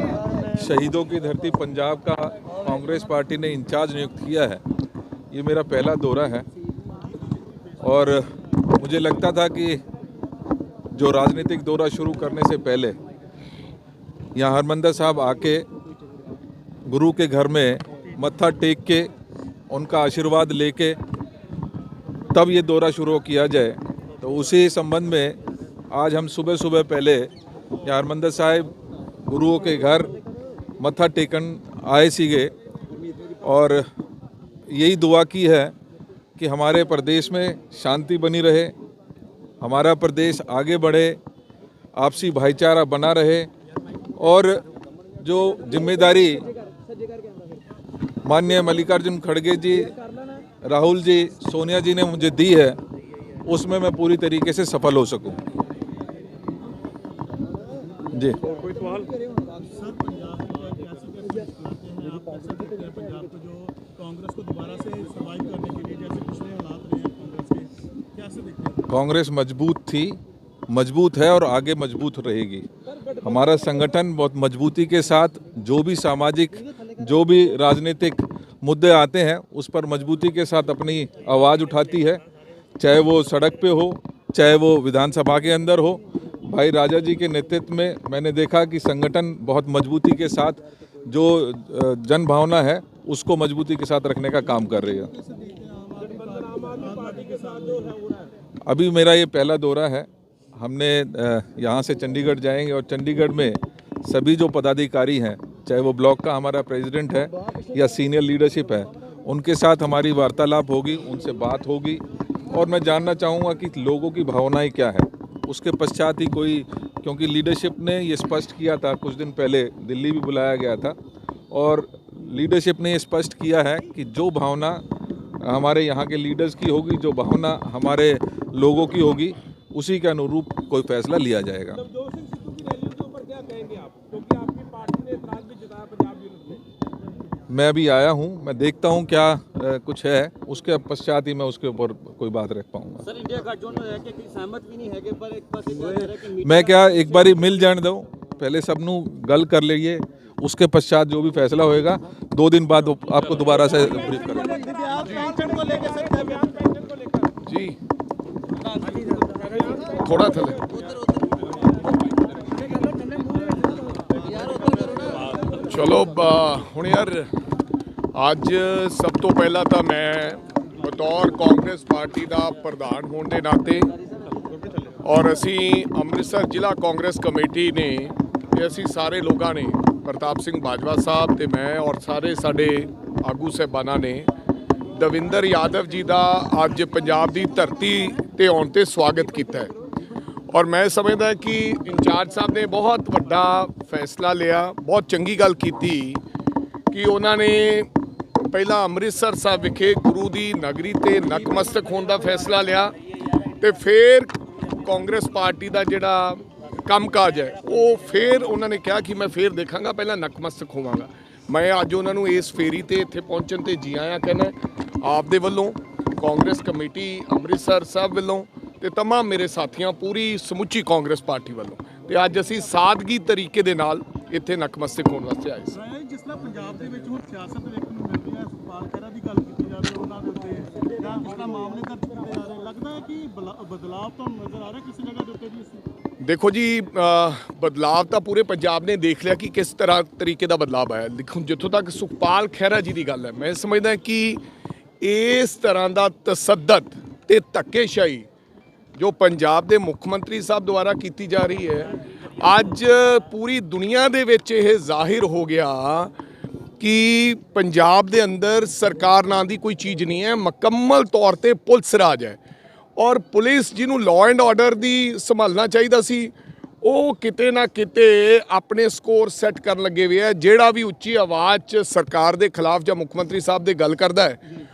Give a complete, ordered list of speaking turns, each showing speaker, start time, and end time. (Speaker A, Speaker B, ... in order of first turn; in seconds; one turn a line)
Speaker A: 0.5-4.6
Speaker A: 5.3-6.5
Speaker A: 7.8-9.8
Speaker A: 10.9-13.0
Speaker A: 14.3-15.7
Speaker A: 16.9-19.1
Speaker A: 19.7-21.0
Speaker A: 22.3-27.3
Speaker A: 27.8-28.7
Speaker A: 29.2-30.1
Speaker A: 30.8-32.5
Speaker A: 33.4-33.9
Speaker A: 34.7-35.7
Speaker A: 36.4-38.7
Speaker A: 39.6-41.2
Speaker A: 42.0-43.5
Speaker A: 44.2-44.6
Speaker A: 45.2-46.5
Speaker A: 48.2-49.9
Speaker A: 50.6-52.8
Speaker A: 53.4-55.4
Speaker A: 58.1-58.4
Speaker B: 59.6-68.8
Speaker A: 68.9-72.7
Speaker A: 73.2-82.2
Speaker A: 82.8-95.1
Speaker B: 95.1-97.9
Speaker C: 96.6-98.2
Speaker A: 98.7-121.0
Speaker A: 121.5-124.8
Speaker A: 125.4-131.8
Speaker C: 132.1-136.6
Speaker A: 137.5-143.1
Speaker C: 143.1-146.4
Speaker A: 146.2-154.7
Speaker B: 154.7-156.4
Speaker D: 157.4-157.8
Speaker C: 159.2-159.9
Speaker D: 160.0-160.6
Speaker C: 160.7-161.6
Speaker C: 163.3-165.6
Speaker D: 165.6-167.3
Speaker D: 168.1-173.9
Speaker D: 175.0-184.3
Speaker D: 184.9-189.7
Speaker D: 190.5-196.2
Speaker D: 196.9-197.9
Speaker D: 198.5-202.9
Speaker D: 203.6-225.8
Speaker B: 225.8-235.8
Speaker D: 236.2-244.4
Speaker D: 245.0-248.2
Speaker D: 248.9-256.1
Speaker D: 256.8-262.4
Speaker D: 263.0-274.4